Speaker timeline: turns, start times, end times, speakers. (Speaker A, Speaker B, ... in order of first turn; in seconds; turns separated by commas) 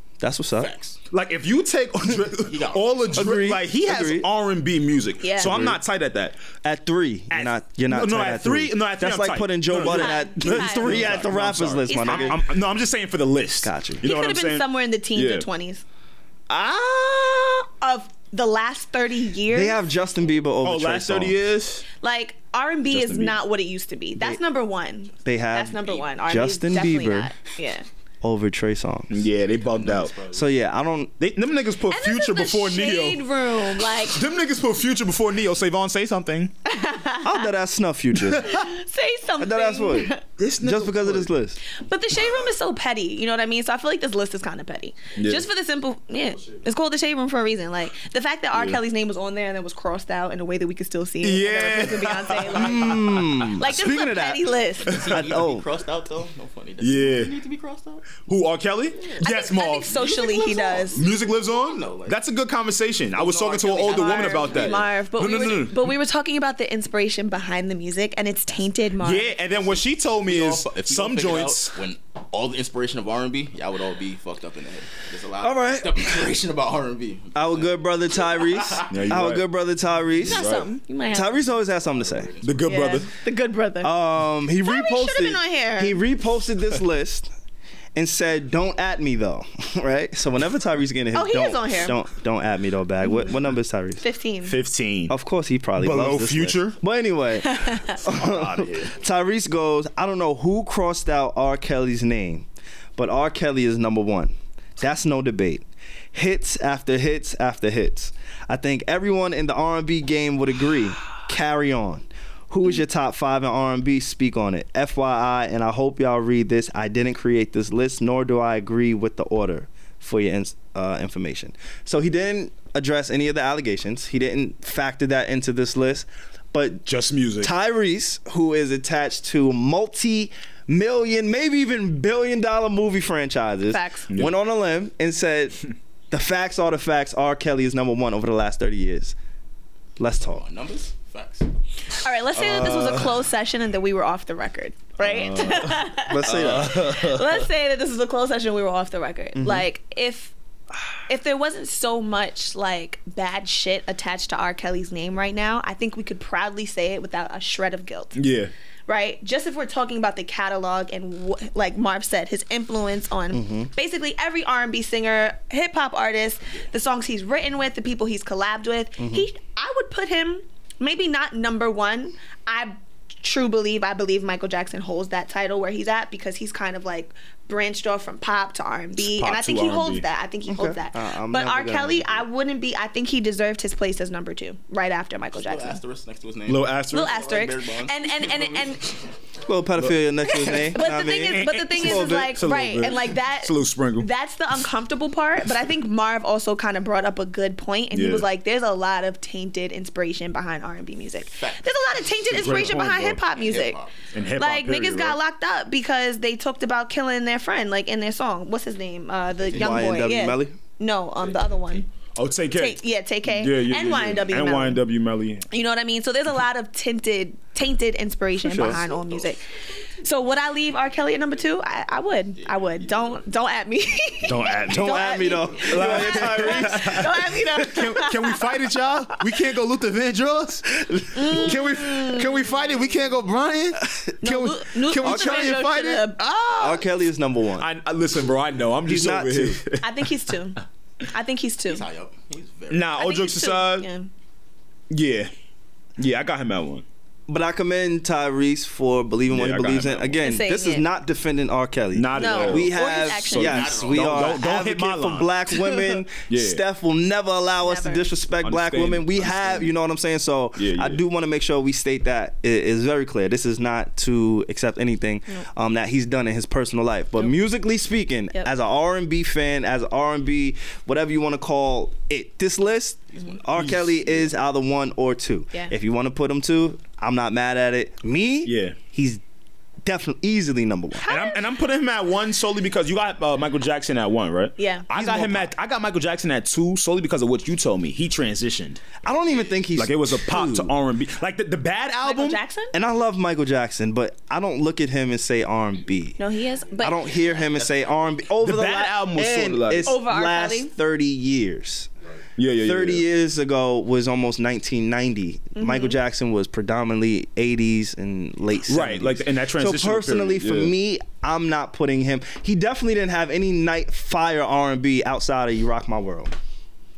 Speaker A: 0.2-0.7, Speaker B: 0.6-1.0, Speaker C: 1.1-6.4, Speaker B: 2.4-3.1, Speaker A: 3.1-4.3, Speaker D: 5.2-5.6, Speaker A: 5.4-5.8, Speaker A: 6.6-12.4, Speaker C: 7.3-15.4, Speaker D: 9.8-11.3, Speaker D: 11.8-12.4, Speaker A: 13.6-14.0, Speaker D: 14.0-15.8, Speaker D: 16.5-19.8, Speaker A: 19.5-21.4, Speaker C: 20.6-21.8, Speaker D: 22.0-27.8, Speaker C: 22.9-23.4, Speaker A: 25.2-27.3, Speaker A: 28.2-29.2, Speaker C: 29.1-30.3, Speaker B: 29.6-30.4, Speaker A: 30.3-31.1, Speaker C: 31.2-33.2, Speaker D: 31.9-34.2, Speaker C: 34.0-36.5, Speaker D: 36.6-37.5, Speaker A: 37.2-38.5, Speaker C: 38.3-38.7, Speaker D: 38.5-40.2, Speaker A: 39.4-41.6, Speaker C: 40.4-41.3, Speaker D: 41.8-54.9, Speaker C: 45.1-45.5, Speaker C: 48.5-48.8, Speaker C: 51.2-53.3, Speaker A: 52.5-54.5, Speaker B: 54.8-58.1, Speaker C: 54.9-55.3, Speaker A: 55.1-55.6, Speaker C: 56.8-57.3, Speaker C: 58.2-60.0, Speaker B: 59.0-59.2, Speaker D: 59.2-61.0, Speaker B: 59.9-62.2, Speaker C: 60.9-65.9, Speaker B: 63.1-64.9, Speaker D: 63.9-69.3, Speaker C: 69.0-71.8, Speaker B: 69.5-79.0, Speaker A: 75.4-76.3, Speaker A: 77.3-80.5, Speaker C: 78.9-79.4, Speaker C: 80.2-80.7, Speaker D: 80.3-81.4, Speaker A: 81.1-82.3, Speaker B: 81.6-83.0, Speaker C: 82.4-83.1, Speaker D: 82.6-84.0, Speaker A: 83.8-87.3, Speaker D: 84.6-86.0, Speaker A: 87.9-94.0, Speaker D: 91.1-92.0, Speaker D: 93.0-93.3, Speaker D: 94.0-94.5, Speaker C: 94.4-95.1, Speaker A: 95.1-102.5, Speaker C: 95.8-96.8, Speaker D: 97.5-97.9, Speaker C: 98.0-98.9, Speaker A: 103.0-126.8, Speaker C: 126.8-127.5, Speaker A: 127.4-139.1, Speaker D: 133.7-134.1, Speaker A: 140.0-140.4, Speaker B: 140.2-141.5, Speaker D: 142.0-150.3, Speaker C: 142.6-143.0, Speaker C: 145.0-147.0, Speaker A: 146.0-147.2, Speaker A: 149.3-149.6, Speaker D: 151.1-158.2, Speaker C: 158.1-158.5, Speaker D: 158.9-185.8, Speaker A: 163.3-163.7, Speaker A: 169.0-169.3, Speaker C: 179.0-180.0, Speaker A: 180.5-182.2, Speaker B: 185.3-188.7, Speaker C: 186.5-187.1, Speaker D: 186.9-189.0, Speaker A: 189.4-192.4, Speaker C: 189.8-194.1, Speaker D: 190.7-203.8, Speaker C: 197.9-198.3, Speaker B: 201.3-204.3, Speaker C: 202.3-203.2, Speaker C: 204.1-205.2, Speaker D: 204.4-211.8, Speaker A: 209.5-210.6, Speaker C: 212.2-215.4, Speaker D: 212.5-214.8, Speaker D: 215.5-219.4, Speaker A: 218.4-218.8, Speaker B: 218.5-219.3, Speaker D: 220.0-228.5, Speaker B: 222.3-223.2, Speaker C: 224.2-236.9, Speaker A: 224.7-227.4, Speaker A: 230.8-231.3, Speaker D: 231.1-232.5, Speaker D: 234.2-236.2, Speaker A: 235.0-235.6, Speaker A: 236.6-237.7, Speaker C: 237.6-240.1, Speaker A: 238.8-239.6, Speaker D: 239.8-241.8, Speaker B: 241.7-242.9, Speaker C: 242.7-243.9, Speaker D: 242.9-244.1, Speaker C: 244.9-245.3, Speaker C: 246.0-246.8, Speaker A: 247.3-279.2, Speaker C: 249.3-250.2, Speaker D: 250.2-250.8, Speaker C: 251.9-255.4, Speaker D: 252.1-253.8, Speaker B: 252.9-254.4, Speaker C: 256.3-256.6, Speaker D: 257.6-258.1, Speaker C: 258.4-259.7, Speaker C: 260.6-261.0, Speaker B: 273.1-273.4, Speaker C: 273.5-274.3, Speaker C: 278.4-278.8, Speaker A: 279.8-281.1, Speaker D: 281.0-281.4, Speaker C: 281.0-288.8, Speaker D: 284.6-284.9, Speaker A: 284.9-285.5, Speaker A: 289.0-290.7, Speaker C: 289.8-292.4, Speaker D: 292.0-292.7, Speaker A: 292.7-296.2, Speaker D: 296.2-297.1, Speaker A: 296.8-301.9, Speaker B: 296.8-298.0, Speaker C: 298.4-299.9, Speaker D: 299.9-300.7, Speaker C: 302.4-303.0, Speaker A: 302.6-316.3, Speaker D: 305.6-306.0, Speaker C: 308.7-310.7